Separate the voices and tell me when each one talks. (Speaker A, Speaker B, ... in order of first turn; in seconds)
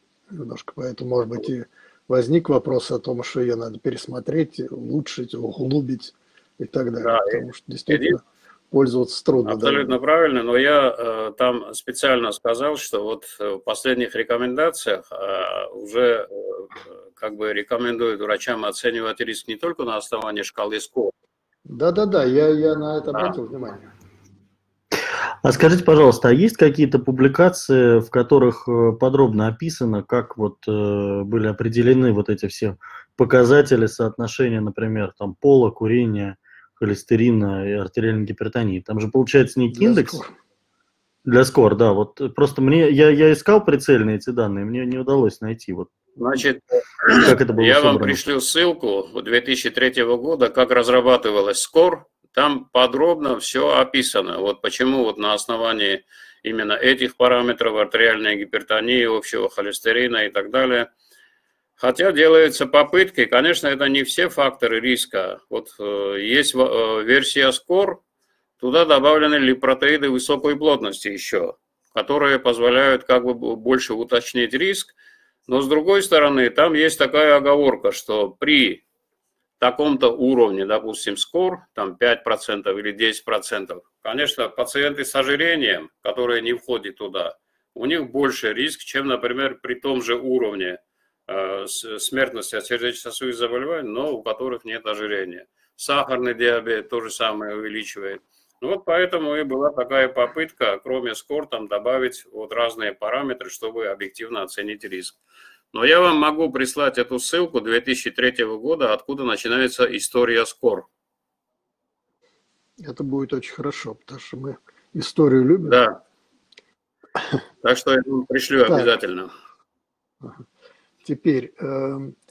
Speaker A: 0.3-10.0, 21.7-23.9, 39.8-40.3, 112.8-115.8, 118.7-118.9, 121.0-122.1
Speaker B: 7.0-8.2, 9.4-21.1, 46.2-60.9, 61.8-68.0, 68.6-74.9, 75.5-78.8, 79.6-105.2, 105.7-110.9, 115.6-116.0, 117.6-119.3
Speaker C: 25.4-40.2, 41.2-45.9, 47.2-48.2